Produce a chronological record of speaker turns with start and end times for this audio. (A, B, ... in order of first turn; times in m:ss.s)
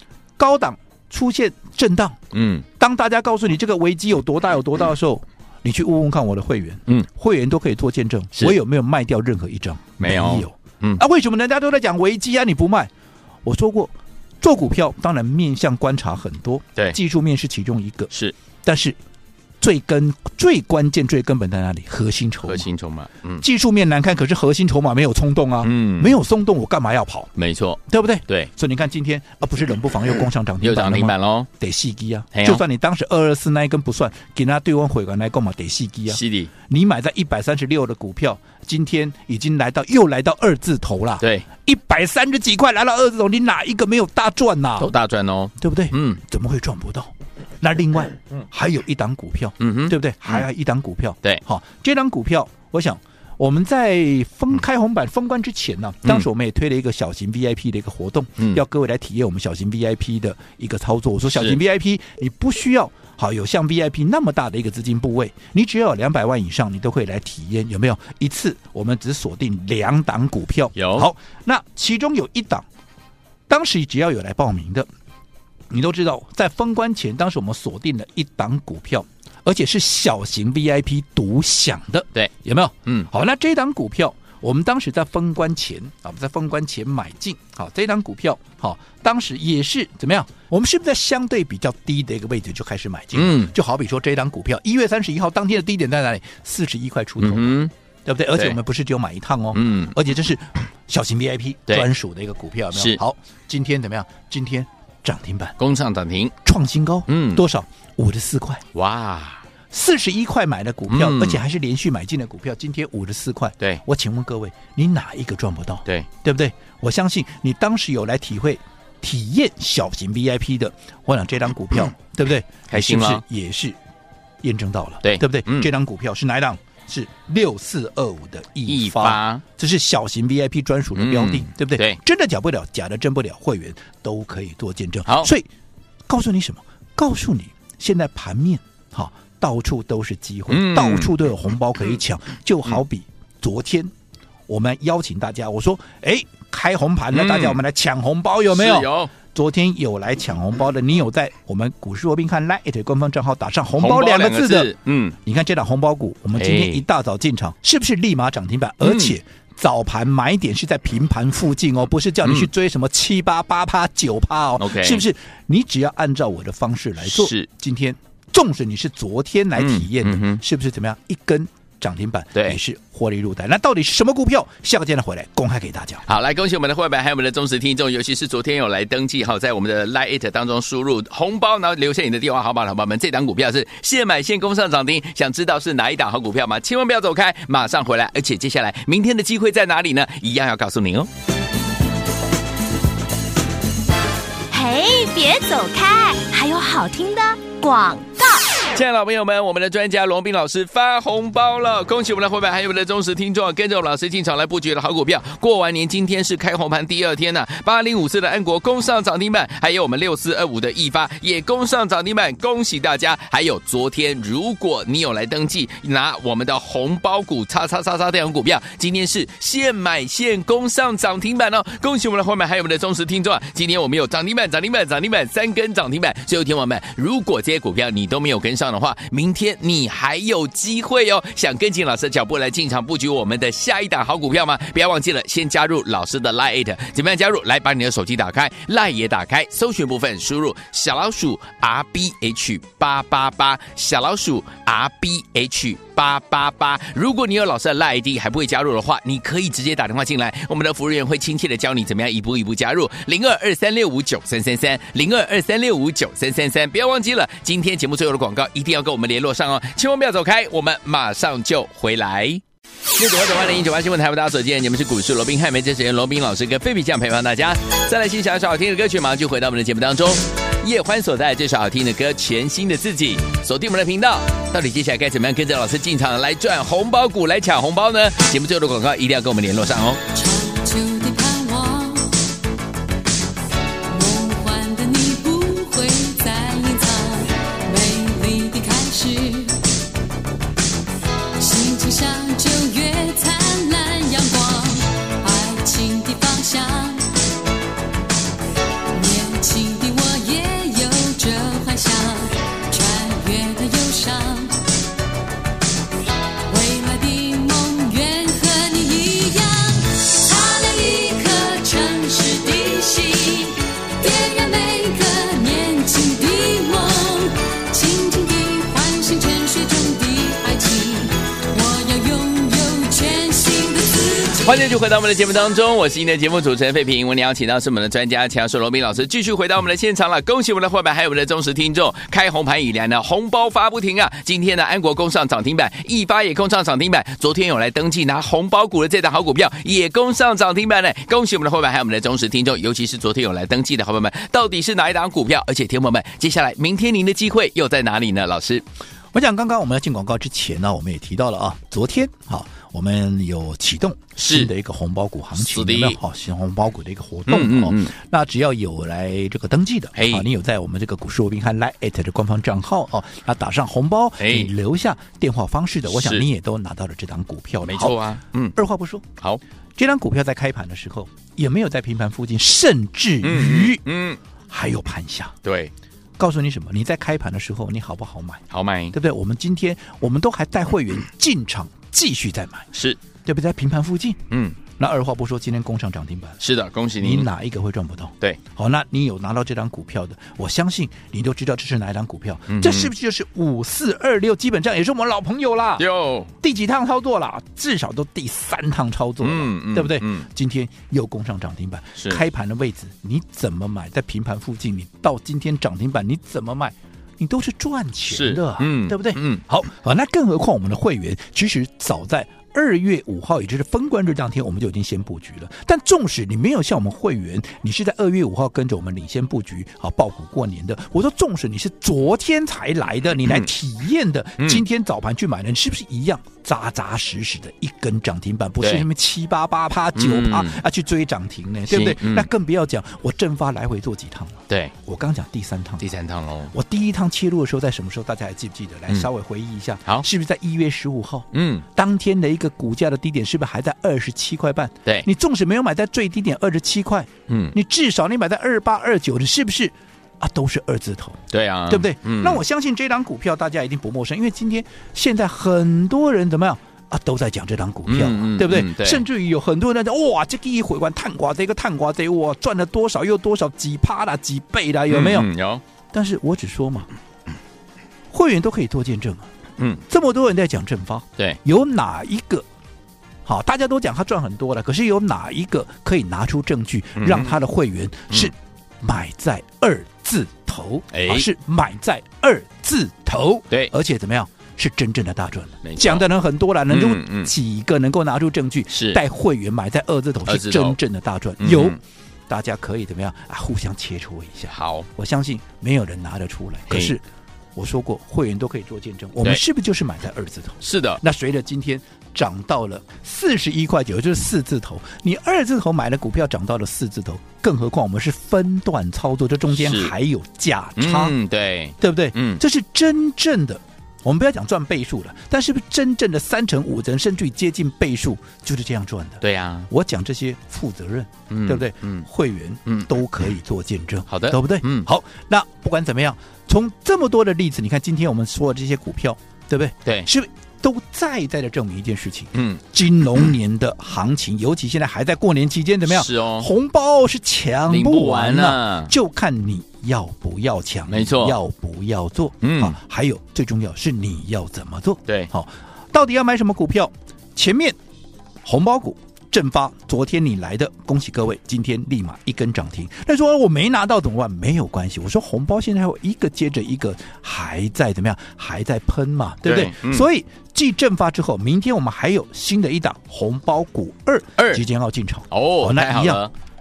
0:00.4-0:02.2 A
0:02.3-0:02.7 B
0:02.8-0:12.9 A
0:10.0-0:11.0 B
0:13.4-0:18.1 A
0:18.6-0:19.0 A
0:19.6-0:22.7 A
0:22.4-0:23.4 B
0:23.4-0:27.3 A
0:25.6-0:26.2 B
0:27.4-0:28.5 B
0:27.9-0:44.9 A
0:30.6-0:31.5 B
0:32.3-0:32.6 B
0:36.1-0:36.5 B
0:41.2-0:41.5 B
0:44.8-0:46.2 B
0:45.6-1:12.7 A
0:49.6-0:50.4 B
1:01.3-1:01.6 B
1:10.8-1:11.1 B
1:13.5-1:14.9 A
1:15.7-1:45.6 A
1:33.2-1:33.5 B
1:37.2-1:37.7 B
1:39.5-1:40.0 B
1:42.7-1:43.0 B
1:45.6-1:46.4 B
1:46.4-1:48.6 A
1:47.1-1:47.4 B
1:48.7-1:49.4 B
1:49.7-2:03.8 A
1:50.9-1:51.4 B
2:02.7-2:03.2 B
2:04.4-2:15.5 A
2:05.0-2:05.7 B
2:08.7-2:09.4 B
2:11.0-2:12.0 B
2:16.1-2:23.9 A
2:20.5-2:21.1 B
2:24.5-2:56.0 A
2:27.1-2:27.6 B
2:28.5-2:29.1 B
2:33.8-2:35.2 B
2:36.4-2:36.8 B
2:38.8-2:39.2 B
2:42.2-2:42.5 B
2:44.6-2:45.0 B
2:47.0-2:47.5 B
2:49.6-2:50.4 B
2:56.1-3:11.1 B
3:14.5-3:18.5 C
3:18.7-4:22.4 B
4:22.9-4:40.0 B
4:40.1-4:42.1 D
4:43.9-4:49.6 D
4:51.4-4:57.1 D
4:58.9-5:04.6 D
5:06.5-5:24.6 D
5:24.4-5:48.6 B
5:49.1-6:09.1 A
5:54.2-5:54.5 B
5:55.4-5:56.0 B
5:57.3-5:57.9 B
6:00.0-6:00.3 B
6:04.2-6:04.5 B
6:05.9-6:06.2 B
6:07.6-6:08.6 B
6:09.8-6:13.8 A
6:13.2-6:14.2 B
6:14.5-6:15.4 A
6:15.4-6:15.7 B
6:16.2-6:22.7 A
6:18.5-6:19.0 B
6:22.7-6:23.0 B
6:23.2-6:24.2 A
6:24.3-6:24.6 B
6:24.8-6:26.4 A
6:26.4-6:27.3 B
6:27.0-6:35.9 A
6:32.5-6:32.9 B
6:35.8-6:36.3 B
6:36.4-7:15.9 A
6:39.2-6:40.3 B
6:42.0-6:42.2 B
6:48.1-6:49.4 B
7:03.2-7:03.5 B
7:04.4-7:04.6 B
7:08.6-7:08.9 B
7:10.0-7:10.6 B
7:11.7-7:12.3 B
7:14.5-7:14.7 B
7:15.8-7:16.5 B
7:16.5-7:45.3 A
7:21.3-7:21.6 B
7:27.3-7:27.6 B
7:31.3-7:32.4 B
7:37.9-7:39.0 B
7:44.9-7:45.6 B
7:45.9-7:46.9 A
7:48.1-7:49.3 A
7:49.6-7:49.8 B
7:49.9-7:52.4 A
7:53.3-8:11.8 A
7:57.0-7:57.4 B
8:00.9-8:01.3 B
8:05.6-8:06.1 B
8:06.7-8:07.3 B
8:08.7-8:09.0 B
8:10.3-8:10.8 B
8:11.4-8:11.8 B
8:12.3-8:17.0 A
8:14.5-8:14.9 B
8:16.7-8:17.0 B
8:17.6-8:31.2 A
8:20.6-8:21.0 B
8:29.5-8:29.9 B
8:30.8-8:32.4 B
8:31.8-9:07.8 A
8:39.2-8:39.7 B
8:41.3-8:42.1 B
8:44.1-8:44.9 B
8:52.3-8:52.6 B
8:55.9-8:56.5 B
8:57.7-8:58.9 B
9:00.9-9:01.4 B
9:02.4-9:02.8 B
9:08.4-9:26.2 A
9:19.4-9:20.1 B
9:24.4-9:24.6 B
9:25.3-9:26.3 B